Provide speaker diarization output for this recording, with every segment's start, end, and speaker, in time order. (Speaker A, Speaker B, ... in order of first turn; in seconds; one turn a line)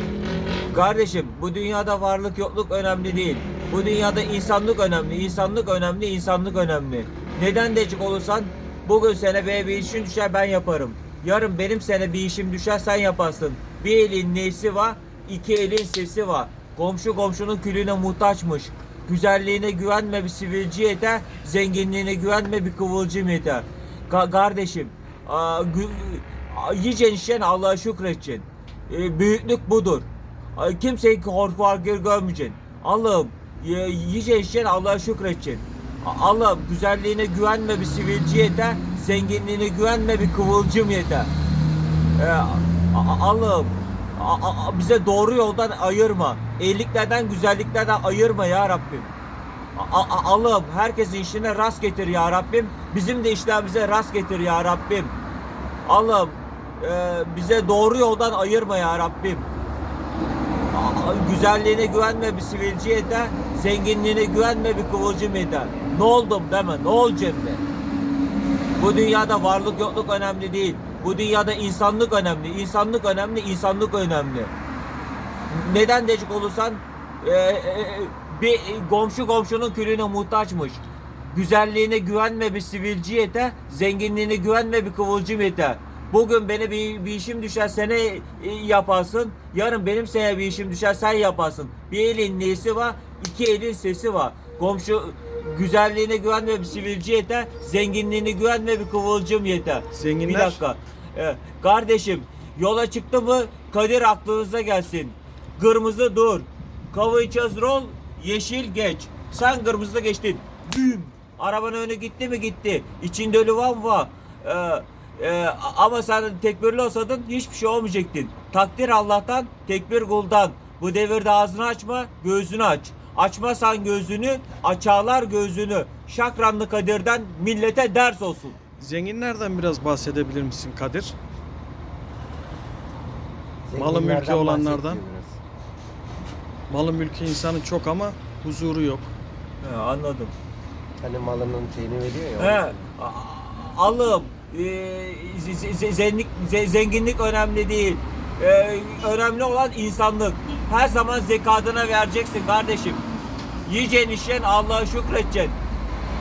Speaker A: 0.7-41.3
Speaker A: 42.1-49.1
Speaker A: 49.7-55.1
Speaker A: 55.8-59.5
Speaker A: 60.7-67.6
Speaker A: 68.8-74.5
Speaker A: 75.5-128.6
Speaker B: 99.9-100.6
Speaker B: 128.8-131.2
Speaker C: 133.7-135.4
Speaker B: 133.7-135.0
Speaker B: 136.7-139.1
Speaker A: 139.6-140.3
Speaker C: 141.0-142.8
Speaker A: 142.4-153.0
Speaker A: 153.6-155.6